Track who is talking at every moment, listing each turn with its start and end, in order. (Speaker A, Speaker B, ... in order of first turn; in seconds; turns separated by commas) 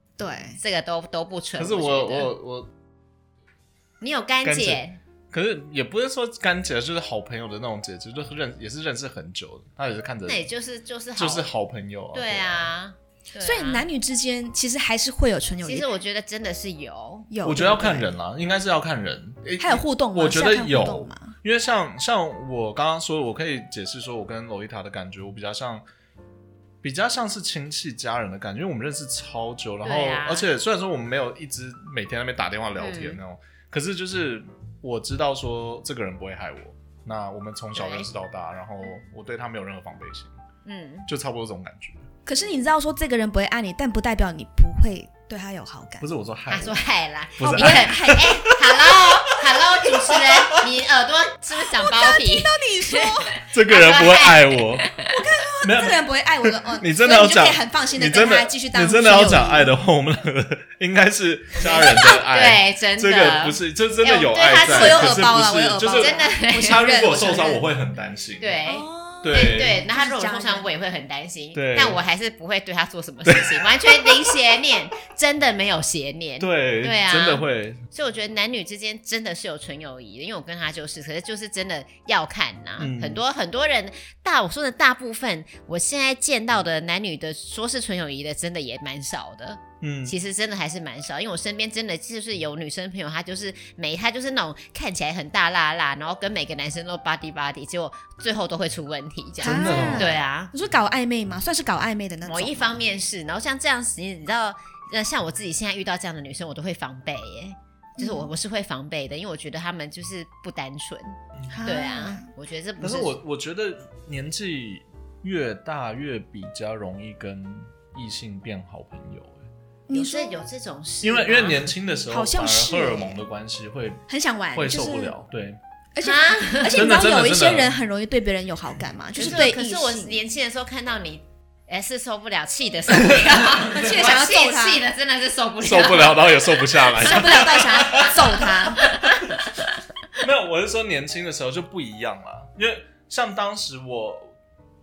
Speaker A: 0.2-0.6, Speaker B: 0.6-2.3, Speaker C: 1.6-2.7, Speaker B: 4.0-5.0, Speaker C: 4.4-10.4, Speaker B: 10.3-11.5, Speaker C: 11.2-12.6, Speaker B: 12.1-13.8, Speaker A: 13.4-15.9, Speaker B: 15.6-17.3, Speaker A: 17.3-18.1, Speaker C: 17.4-25.9, Speaker A: 19.6-21.3, Speaker C: 26.8-40.3, Speaker B: 29.8-30.5, Speaker B: 32.8-33.2, Speaker B: 37.8-38.1, Speaker B: 40.6-41.1, Speaker C: 41.1-42.0, Speaker A: 42.2-46.1, Speaker C: 46.0-46.8, Speaker B: 46.5-55.1, Speaker C: 47.4-50.7, Speaker A: 47.4-48.5, Speaker A: 51.6-53.4, Speaker C: 53.5-54.9, Speaker A: 55.0-59.7, Speaker C: 55.6-68.6, Speaker B: 61.6-65.2, Speaker A: 61.6-62.1, Speaker A: 64.6-67.6, Speaker B: 65.9-66.9, Speaker B: 68.4-100.5, Speaker A: 68.7-70.7, Speaker C: 69.2-69.8, Speaker C: 71.5-72.0, Speaker C: 73.2-74.3, Speaker C: 76.4-77.8, Speaker C: 82.8-83.2, Speaker C: 89.8-90.1, Speaker C: 99.4-100.2, Speaker A: 99.4-102.8, Speaker B: 102.2-113.1, Speaker A: 108.0-108.3, Speaker A: 111.5-112.3, Speaker C: 112.8-119.5, Speaker A: 119.9-120.4, Speaker B: 119.9-121.6, Speaker C: 121.0-125.6, Speaker A: 122.1-123.2, Speaker A: 124.1-125.1, Speaker A: 126.0-130.2, Speaker B: 126.0-126.8, Speaker C: 126.7-127.7, Speaker B: 129.1-139.4, Speaker C: 132.9-134.0, Speaker A: 133.5-134.8, Speaker C: 135.6-139.5, Speaker A: 137.0-138.9, Speaker C: 140.2-144.4